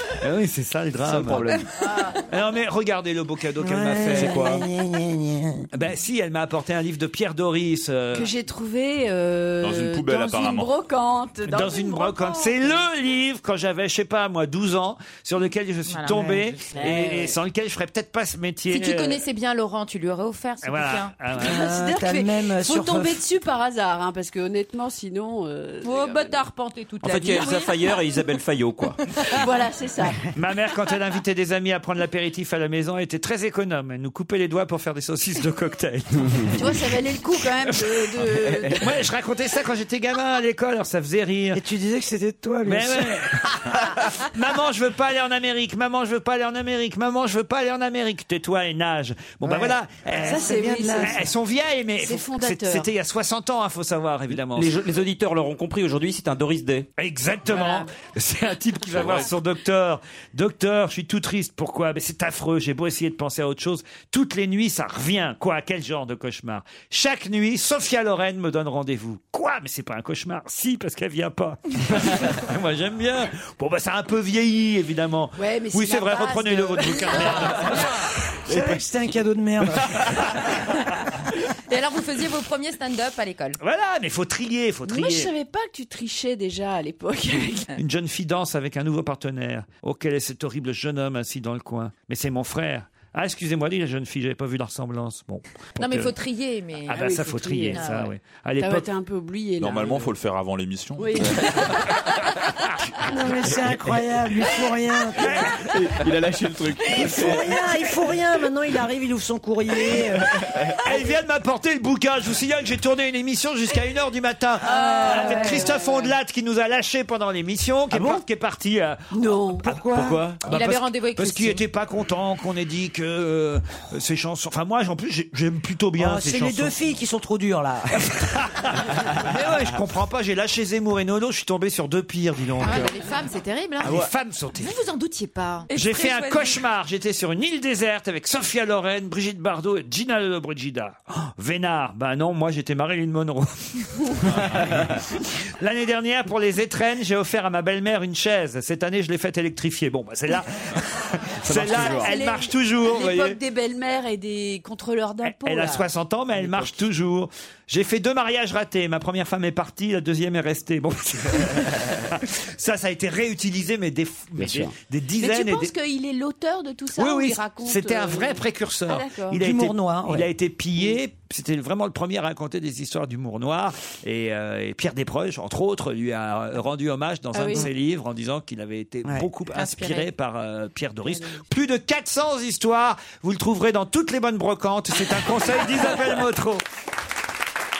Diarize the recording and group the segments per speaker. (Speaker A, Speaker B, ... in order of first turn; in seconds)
Speaker A: 0.2-4.6, 5.7-8.3, 11.5-19.2, 20.6-21.6, 30.4-36.9, 38.8-41.6, 42.6-54.7, 57.0-77.9, 83.6-85.3, 87.8-96.1, 96.9-98.9, 110.8-119.0, 120.4-126.7, 128.0-133.0, 133.8-134.8, 135.7-144.8, 145.6-153.4, 155.2-165.7, 166.9-186.6
Speaker B: 1.0-1.6, 4.2-4.6, 78.5-78.8, 103.5-103.9, 105.7-107.6, 110.3-110.8, 119.9-120.4, 133.8-134.1, 144.5-144.9, 151.4-152.1, 156.4-156.7, 164.4-164.7
Speaker C: 3.6-5.7, 16.1-17.0, 21.4-23.2, 41.5-43.4, 49.4-51.2, 78.5-80.1, 103.0-105.5, 106.9-110.4, 117.9-118.2, 119.6-120.2, 126.0-128.1, 169.4-170.3
Speaker D: 8.1-12.8, 16.8-17.3, 21.4-26.5, 29.3-30.3, 36.5-38.9, 50.2-51.2, 52.0-52.9, 57.5-57.8, 75.4-77.9, 84.8-87.7, 96.9-98.0, 98.6-100.1, 101.0-101.9, 114.6-116.1, 119.1-119.6, 151.7-155.9, 165.2-169.4
Speaker E: 9.6-10.7, 99.6-101.6
Speaker F: 15.9-16.8, 18.7-21.1, 25.8-27.7, 81.7-83.6, 95.8-97.0, 97.7-98.1, 115.0-115.5, 120.4-121.6, 132.6-136.6, 179.5-180.1
Speaker G: 27.0-29.0, 54.4-56.9